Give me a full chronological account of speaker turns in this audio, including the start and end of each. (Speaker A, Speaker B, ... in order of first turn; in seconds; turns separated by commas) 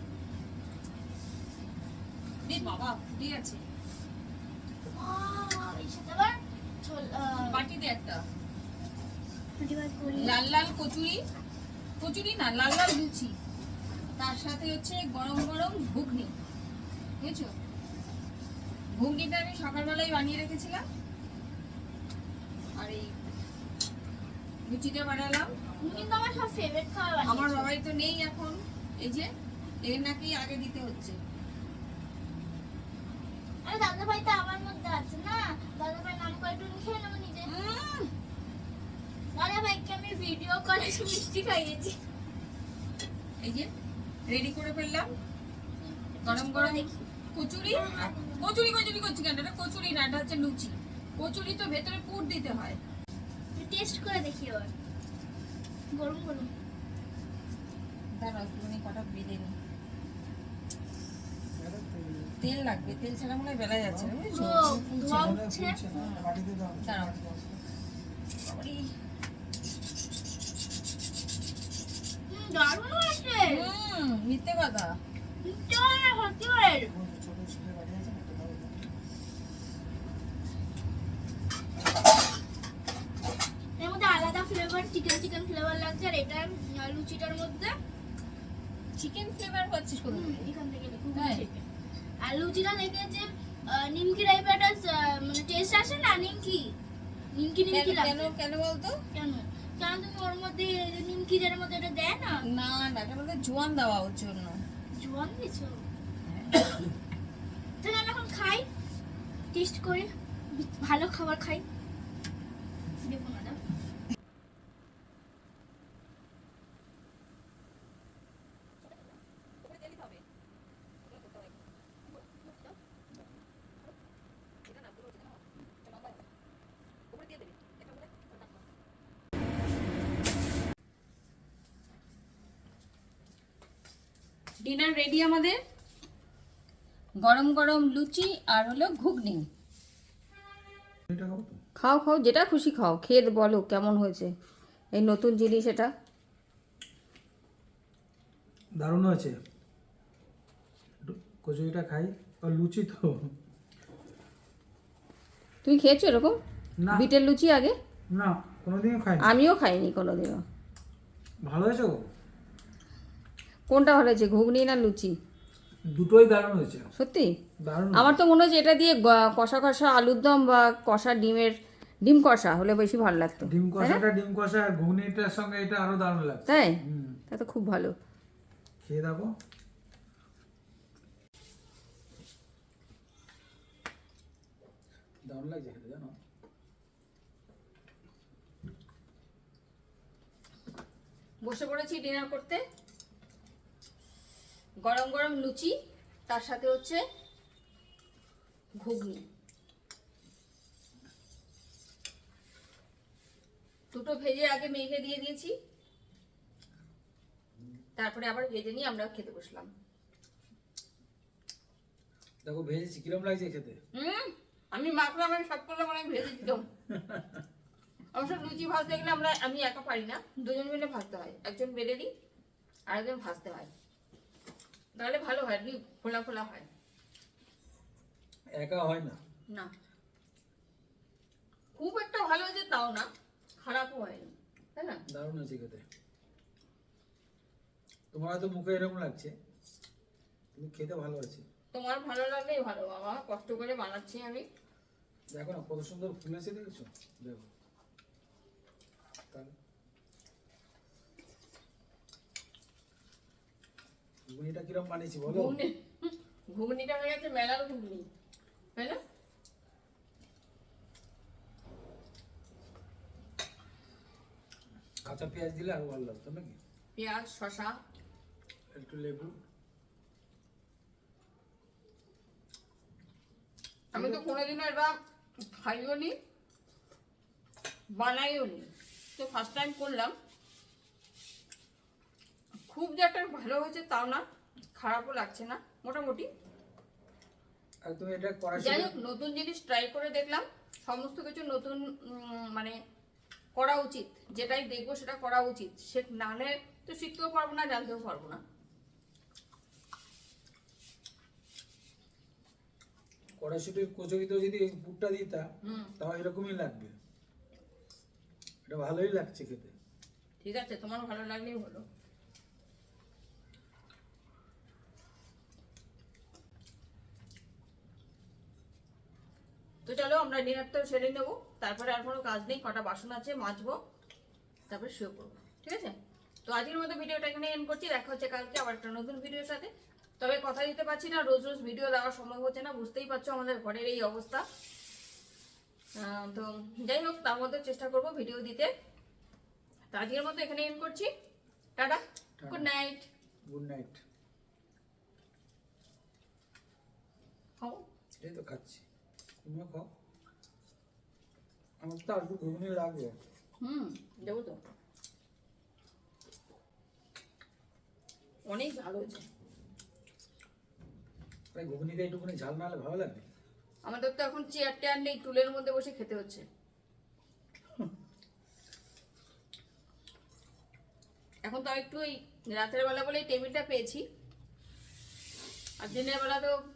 Speaker A: 2.5-3.6, Speaker B: 4.9-7.6, Speaker A: 7.4-8.2, Speaker B: 9.6-10.4, Speaker A: 10.1-11.2, Speaker A: 12.0-13.3, Speaker A: 14.2-16.3, Speaker A: 17.2-17.5, Speaker A: 18.9-20.8, Speaker A: 22.8-23.1, Speaker A: 24.6-25.7, Speaker B: 25.8-27.7, Speaker A: 27.2-29.3, Speaker A: 29.8-31.2, Speaker B: 33.6-37.5, Speaker A: 37.5-38.1, Speaker B: 39.3-42.0, Speaker A: 43.4-43.7, Speaker A: 44.3-45.1, Speaker B: 46.1-47.0, Speaker A: 46.2-52.8, Speaker B: 47.7-48.4, Speaker B: 53.5-54.7, Speaker B: 55.9-56.5, Speaker A: 58.2-59.5, Speaker C: 61.5-62.3, Speaker A: 62.4-64.9, Speaker C: 63.9-64.1, Speaker B: 64.2-65.8, Speaker C: 64.7-67.6, Speaker A: 65.9-66.3, Speaker A: 66.8-67.2, Speaker A: 68.4-68.9, Speaker B: 72.3-73.7, Speaker A: 73.5-75.0, Speaker B: 75.4-76.9, Speaker C: 76.9-78.9, Speaker B: 83.8-87.8, Speaker A: 89.0-90.5, Speaker B: 90.1-91.7, Speaker A: 91.1-91.4, Speaker B: 92.2-96.7, Speaker B: 97.3-98.3, Speaker A: 97.7-98.9, Speaker B: 99.1-102.4, Speaker A: 102.5-104.6, Speaker B: 104.9-105.8, Speaker B: 107.8-108.7, Speaker B: 109.5-111.6, Speaker B: 113.0-113.6, Speaker A: 119.6-120.2, Speaker A: 121.0-121.6, Speaker A: 124.7-126.2, Speaker A: 127.1-128.5, Speaker A: 134.6-135.6, Speaker A: 137.2-139.4, Speaker C: 141.1-141.6, Speaker A: 141.8-144.3, Speaker A: 144.9-145.9, Speaker C: 148.8-149.3, Speaker C: 151.0-153.3, Speaker A: 155.6-156.3, Speaker C: 156.8-157.1, Speaker A: 156.9-157.7, Speaker C: 158.1-159.3, Speaker A: 159.2-160.4, Speaker C: 161.4-162.1, Speaker A: 163.7-165.1, Speaker C: 165.9-166.9, Speaker A: 166.9-167.3, Speaker C: 167.6-168.2, Speaker A: 167.9-171.5, Speaker A: 172.0-174.0, Speaker C: 173.4-177.2, Speaker A: 176.4-176.8, Speaker A: 177.3-177.9, Speaker C: 178.8-179.3, Speaker C: 185.3-186.1, Speaker A: 191.4-192.6, Speaker A: 194.8-195.7, Speaker A: 196.3-197.0, Speaker A: 198.8-199.2, Speaker A: 203.9-205.5, Speaker A: 208.0-209.7, Speaker C: 212.4-213.8, Speaker A: 213.9-216.7, Speaker C: 216.9-217.3, Speaker A: 218.1-222.1, Speaker A: 222.9-223.7, Speaker A: 224.9-226.7, Speaker C: 228.6-229.2, Speaker A: 231.7-233.1, Speaker A: 233.6-235.0, Speaker C: 235.1-235.8, Speaker C: 238.1-239.3, Speaker C: 240.5-241.4, Speaker A: 241.7-244.4, Speaker C: 245.3-247.5, Speaker C: 254.3-255.6, Speaker A: 255.2-258.1, Speaker C: 265.1-266.6, Speaker A: 266.9-267.7, Speaker C: 268.7-269.3, Speaker A: 273.9-274.9, Speaker A: 275.5-276.1, Speaker A: 278.0-280.1, Speaker A: 282.7-284.2, Speaker A: 284.8-286.3, Speaker C: 287.8-288.9, Speaker A: 288.6-292.7, Speaker A: 293.6-298.4, Speaker C: 303.4-305.4, Speaker A: 305.6-305.9, Speaker C: 306.0-306.9, Speaker C: 308.6-309.7, Speaker A: 310.4-311.8, Speaker A: 319.9-323.8, Speaker A: 324.7-334.4, Speaker A: 336.0-338.7, Speaker A: 339.9-341.1, Speaker A: 341.8-343.1, Speaker C: 342.4-342.7, Speaker C: 343.5-344.0, Speaker A: 347.6-347.8, Speaker C: 348.2-348.8, Speaker C: 349.4-349.9, Speaker C: 351.8-353.1, Speaker A: 353.6-354.6, Speaker A: 358.5-359.2, Speaker C: 361.5-363.2, Speaker A: 363.9-366.4, Speaker A: 371.4-374.0, Speaker A: 375.8-376.5